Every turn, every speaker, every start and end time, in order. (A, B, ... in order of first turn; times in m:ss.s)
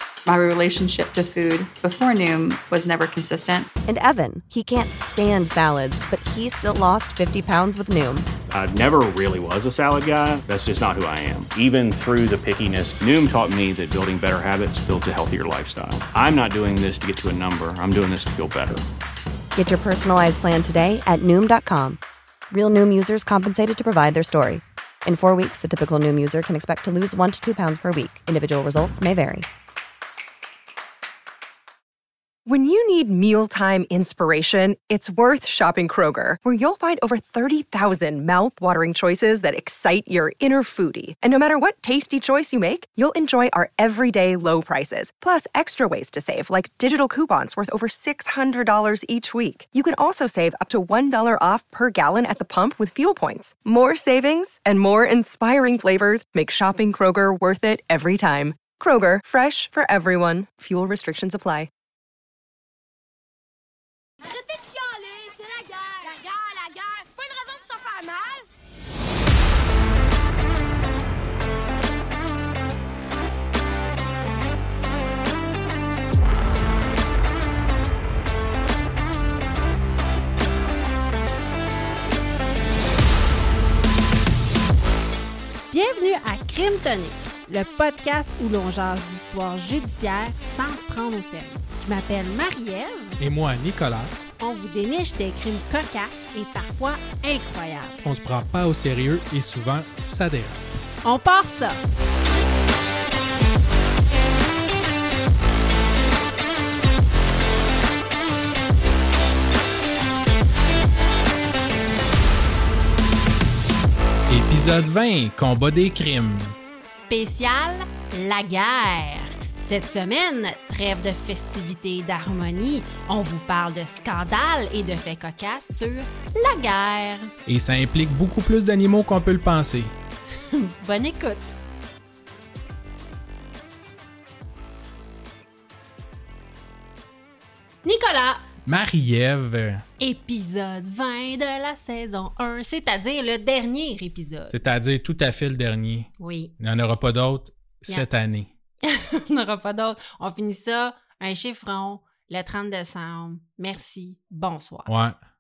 0:00.3-0:03.7 A
0:03.9-0:08.3 B
0:08.5-0:18.8 C
0:19.6-0:29.5 B
0:32.5-1:01.7 D
1:04.3-1:08.4 E
1:25.7-1:33.2 F
1:33.2-1:34.2 G
1:34.4-1:38.0 F
1:38.0-1:40.6 G
1:41.0-1:41.8 F
1:54.3-1:56.6 G
1:56.9-2:07.3 F
2:07.5-2:10.0 G
2:10.5-2:11.6 F
2:17.8-2:18.4 F
2:18.6-2:19.8 G
2:20.0-2:24.6 F
2:24.5-2:28.5 G
2:26.2-2:26.5 F
2:28.8-2:34.9 F
2:34.9-2:35.2 G